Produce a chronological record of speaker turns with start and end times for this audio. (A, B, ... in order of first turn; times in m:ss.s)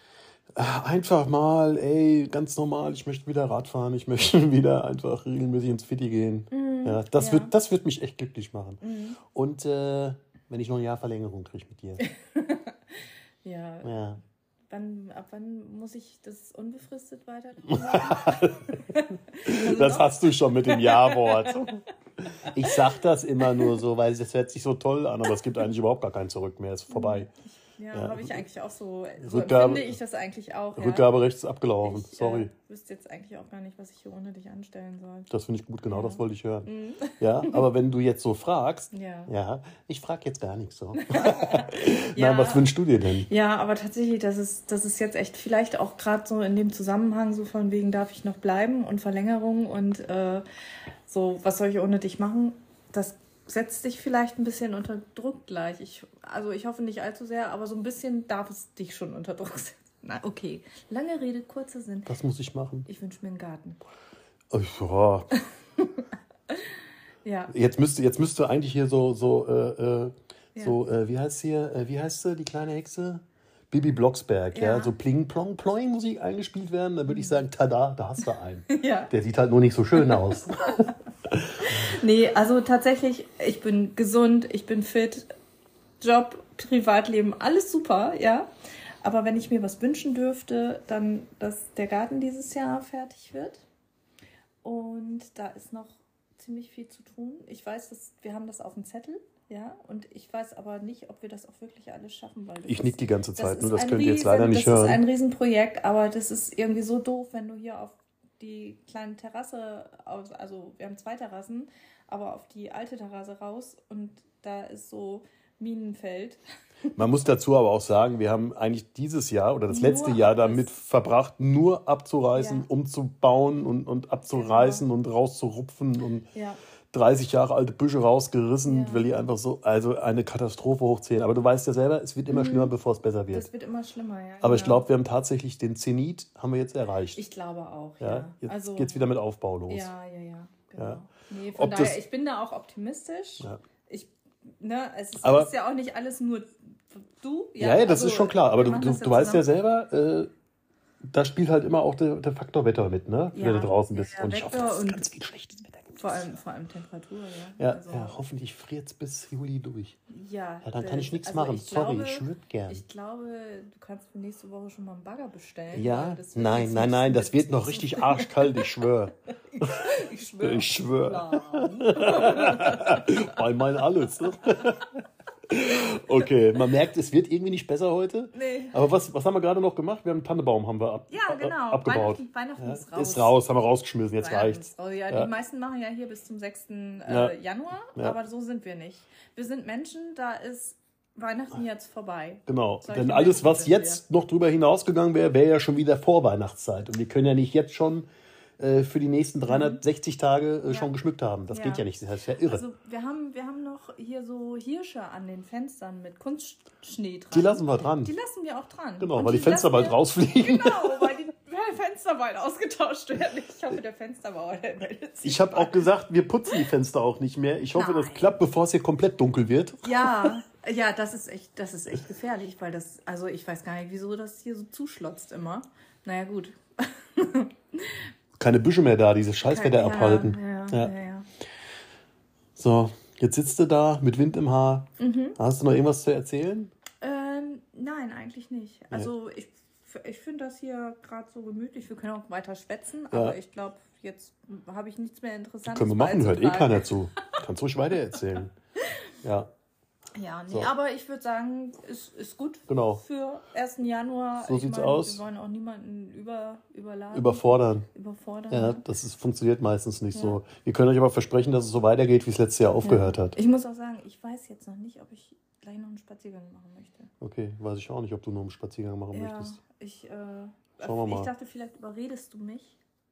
0:00.6-0:08.8 A
0:06.5-0:07.5 B
0:08.8-0:09.2 B
0:09.3-0:12.0 A
0:12.0-0:13.9 B
0:13.8-0:14.2 A
0:14.7-0:21.7 B
0:17.7-0:18.7 A
0:19.4-0:21.8 A
0:22.5-0:27.3 A
0:23.4-0:23.8 B
0:26.9-0:31.1 B
0:27.9-0:28.4 A
0:29.2-0:30.0 A
0:30.8-0:32.5 A
0:31.8-0:35.3 B
0:35.3-0:36.7 A
0:35.9-0:37.6 B
0:37.2-0:43.3 A
0:38.9-0:39.3 B
0:41.0-0:42.6 B
0:43.2-0:50.4 B
0:51.0-1:02.1 B
1:02.1-1:02.9 A
1:02.8-1:03.8 B
1:04.5-1:05.3 A
1:05.8-1:06.6 B
1:07.2-1:07.5 B
1:07.5-1:20.9 A
1:14.5-1:14.9 B
1:17.1-1:17.4 B
1:18.7-1:19.1 B
1:19.9-1:20.9 B
1:21.6-1:25.3 B
1:26.0-1:28.5 B
1:29.0-1:33.6 B
1:34.6-1:56.4 B
1:42.6-1:45.0 A
1:57.0-2:06.2 A
1:59.7-2:00.7 B
2:02.3-2:02.7 B
2:04.3-2:04.8 B
2:06.3-2:06.6 B
2:06.9-2:13.5 A
2:08.6-2:09.1 B
2:12.3-2:12.7 B
2:13.3-2:14.8 B
2:14.4-2:17.2 A
2:17.1-2:19.1 B
2:18.0-2:19.9 A
2:19.7-2:29.5 B
2:21.5-2:22.0 A
2:25.2-2:25.5 A
2:27.6-2:30.3 A
2:31.0-2:36.3 A
2:33.3-2:35.1 B
2:36.0-2:38.2 B
2:37.6-2:40.0 A
2:40.1-2:48.8 B
2:40.6-2:42.8 A
2:45.7-2:54.9 A
2:49.5-2:53.4 B
2:55.5-3:05.3 A
2:58.3-2:58.8 B
3:01.1-3:03.4 B
3:04.2-3:14.0 B
3:07.1-3:07.3 A
3:12.5-3:18.1 A
3:18.6-3:22.6 A
3:19.5-3:19.8 B
3:20.6-3:20.9 B
3:21.5-3:21.8 B
3:22.4-3:35.9 B
3:27.3-3:28.1 A
3:29.0-3:31.2 A
3:35.2-3:40.3 A
3:37.7-3:38.3 B
3:39.8-3:48.1 B
3:48.4-3:50.9 A
3:49.4-3:51.3 B
3:52.6-3:56.7 A
3:55.0-3:55.4 B
3:57.0-4:06.9 B
4:03.1-4:03.4 A
4:05.6-4:08.5 A
4:09.2-4:09.5 A
4:10.1-4:18.8 B
4:12.7-4:13.0 A
4:14.4-4:15.2 A
4:17.1-4:17.9 A
4:18.5-4:23.3 A
4:20.1-4:20.4 B
4:22.8-4:27.1 B
4:27.2-4:29.6 A
4:29.1-4:32.8 B
4:30.8-4:31.3 A